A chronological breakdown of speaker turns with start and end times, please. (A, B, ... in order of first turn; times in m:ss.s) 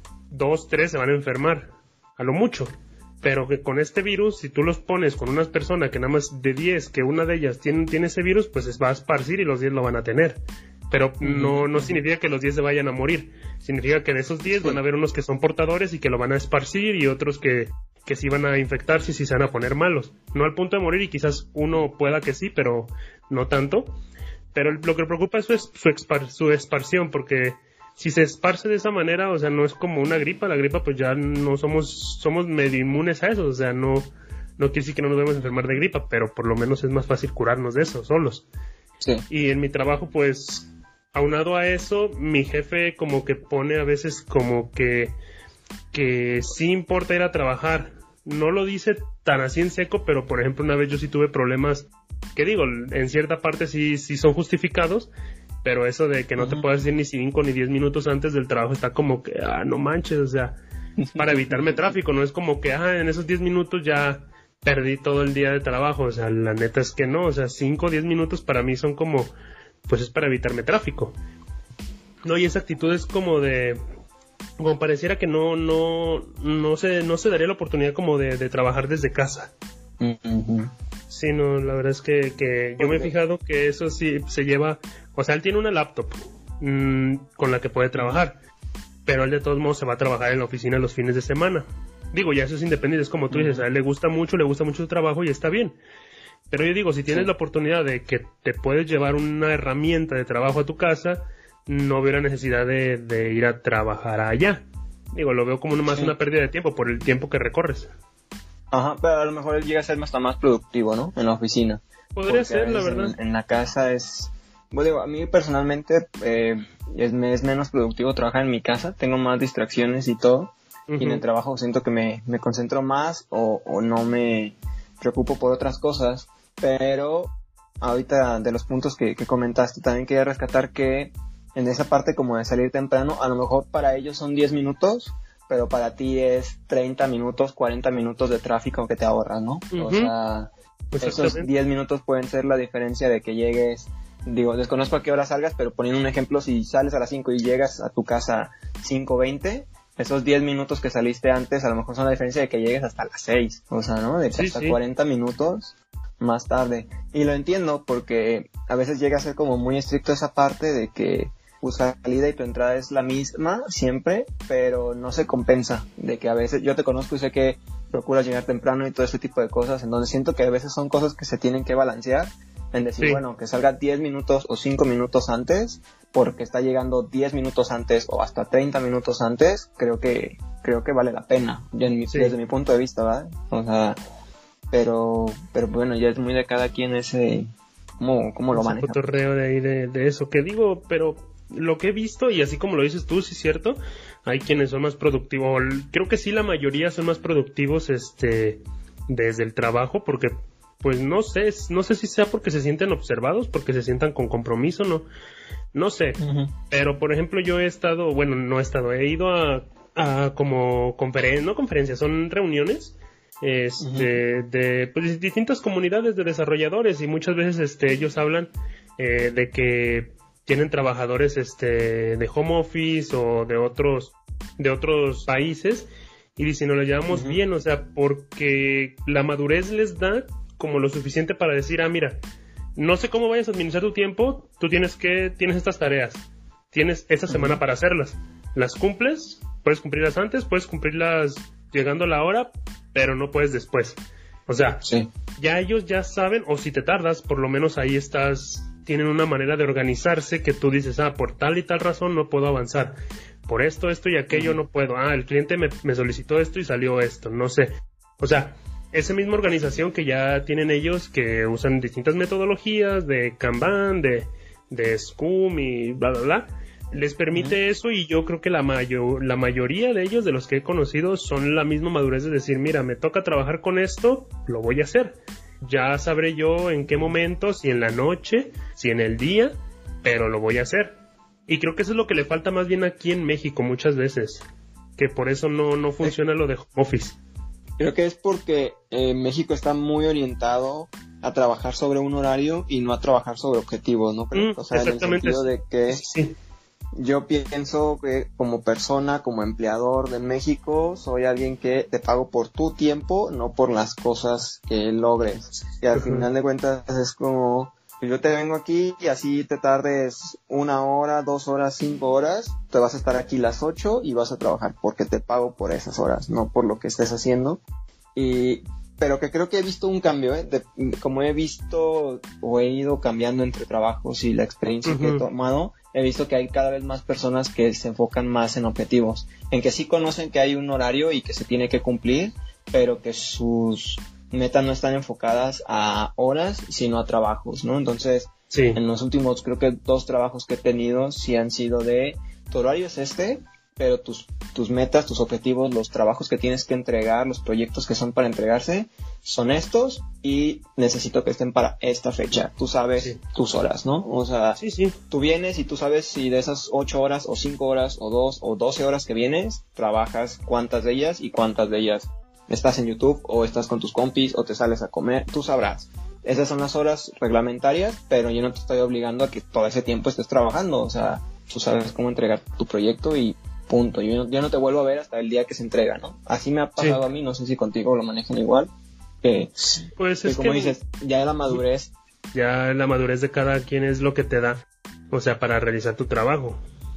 0:00.3-0:23.9 A
0:11.2-0:12.0 B
0:14.4-0:14.8 B
0:24.5-0:38.4 A
0:35.4-0:35.7 B
0:39.3-0:45.2 A
0:45.9-0:55.1 A
0:55.6-1:00.6 A
0:56.4-0:56.6 B
1:01.0-1:01.8 B
1:01.1-1:09.3 A
1:09.9-1:11.1 A
1:12.2-1:13.8 A
1:14.6-1:19.5 A
1:20.0-1:20.7 B
1:21.1-1:28.4 A
1:22.8-1:23.1 B
1:27.9-1:28.2 B
1:29.0-1:35.8 A
1:33.3-1:33.7 B
1:36.5-1:47.9 A
1:45.8-1:46.1 B
1:48.7-3:04.0 B
1:52.1-1:53.2 A
2:00.9-2:01.2 A
2:19.7-2:20.1 A
2:20.9-2:21.5 A
2:34.3-2:34.8 A
3:02.1-3:02.4 A
3:04.7-3:07.5 B
3:08.0-3:09.0 B
3:08.5-3:25.0 A
3:25.7-3:52.2 A
3:26.2-3:26.5 B
3:33.8-3:34.2 B
3:47.1-3:47.4 B
3:52.8-4:04.8 A
3:57.3-3:57.6 B
4:04.8-4:05.1 B
4:05.4-4:44.4 A
4:14.3-4:14.6 B
4:45.0-4:47.2 A
4:47.8-4:56.0 B
4:54.3-4:56.3 A
4:57.0-5:17.6 B
5:05.9-5:06.3 A
5:18.1-5:54.6 B
5:24.8-5:25.2 A
5:38.5-5:38.8 A
5:54.6-5:55.0 A
5:55.1-6:18.7 B
6:19.2-6:21.9 B
6:20.0-6:20.8 A
6:22.3-6:26.6 A